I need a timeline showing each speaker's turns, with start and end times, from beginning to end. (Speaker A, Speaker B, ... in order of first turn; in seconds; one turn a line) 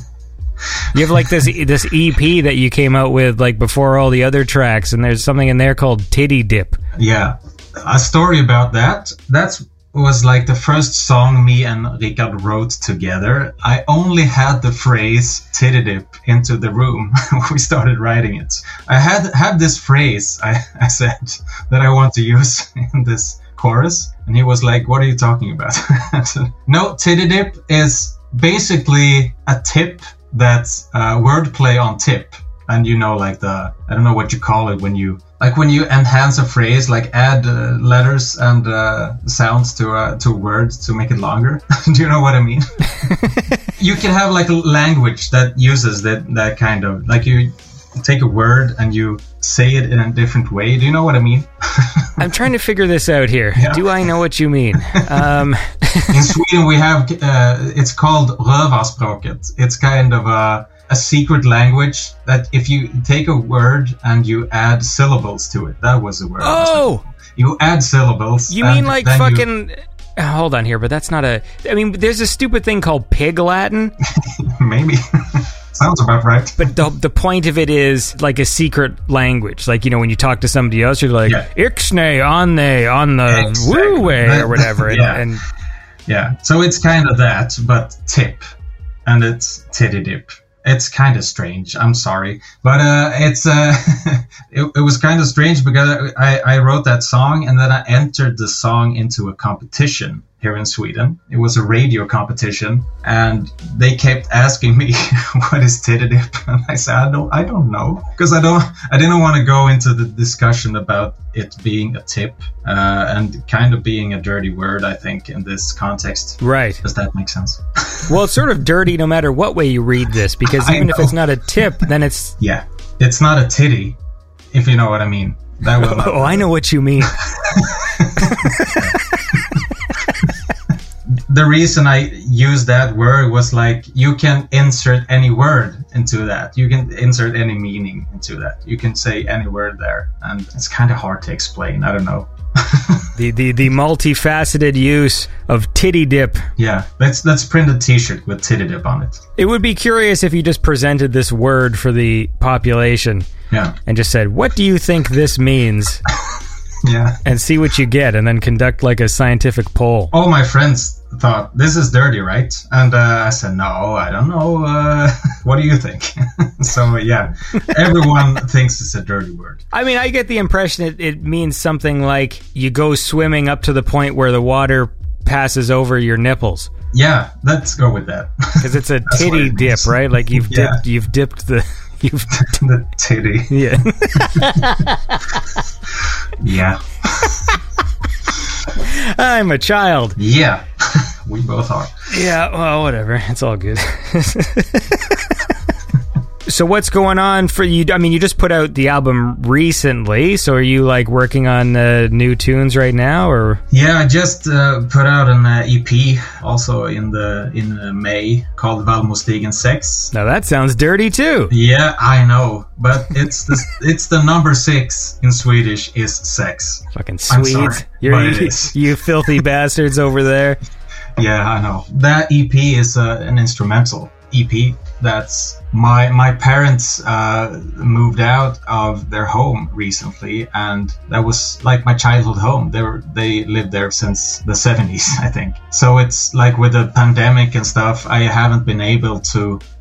Speaker A: 0.9-6.8
Speaker B: 7.0-42.9
Speaker A: 43.0-43.6
Speaker B: 43.8-52.2
Speaker A: 52.2-56.3
Speaker B: 53.5-53.9
Speaker B: 56.1-69.4
Speaker A: 66.4-67.0
Speaker A: 68.5-73.9
Speaker B: 74.2-76.6
Speaker A: 76.6-85.4
Speaker B: 83.3-85.3
Speaker B: 86.1-88.4
Speaker B: 89.0-118.1
Speaker A: 116.4-116.8
Speaker A: 118.1-122.3
Speaker B: 120.5-121.1
Speaker B: 122.4-124.0
Speaker B: 124.5-126.5
Speaker A: 125.8-127.2
Speaker B: 127.0-128.9
Speaker A: 128.2-129.4
Speaker B: 131.3-143.1
Speaker A: 143.2-146.4
Speaker B: 146.6-149.2
Speaker A: 149.4-153.3
Speaker A: 153.8-156.0
Speaker B: 156.8-157.2
Speaker A: 157.2-160.1
Speaker B: 160.1-169.6
Speaker A: 169.7-176.7
Speaker B: 176.9-179.9
Speaker A: 178.6-182.6
Speaker B: 180.4-180.8
Speaker B: 182.4-183.5
Speaker A: 183.5-185.4
Speaker B: 186.4-187.3
Speaker A: 188.8-190.2
Speaker B: 190.2-191.9
Speaker A: 192.1-195.4
Speaker A: 196.4-203.6
Speaker B: 203.7-210.1
Speaker A: 210.1-211.5
Speaker B: 211.5-218.7
Speaker A: 216.9-220.6
Speaker B: 221.2-239.6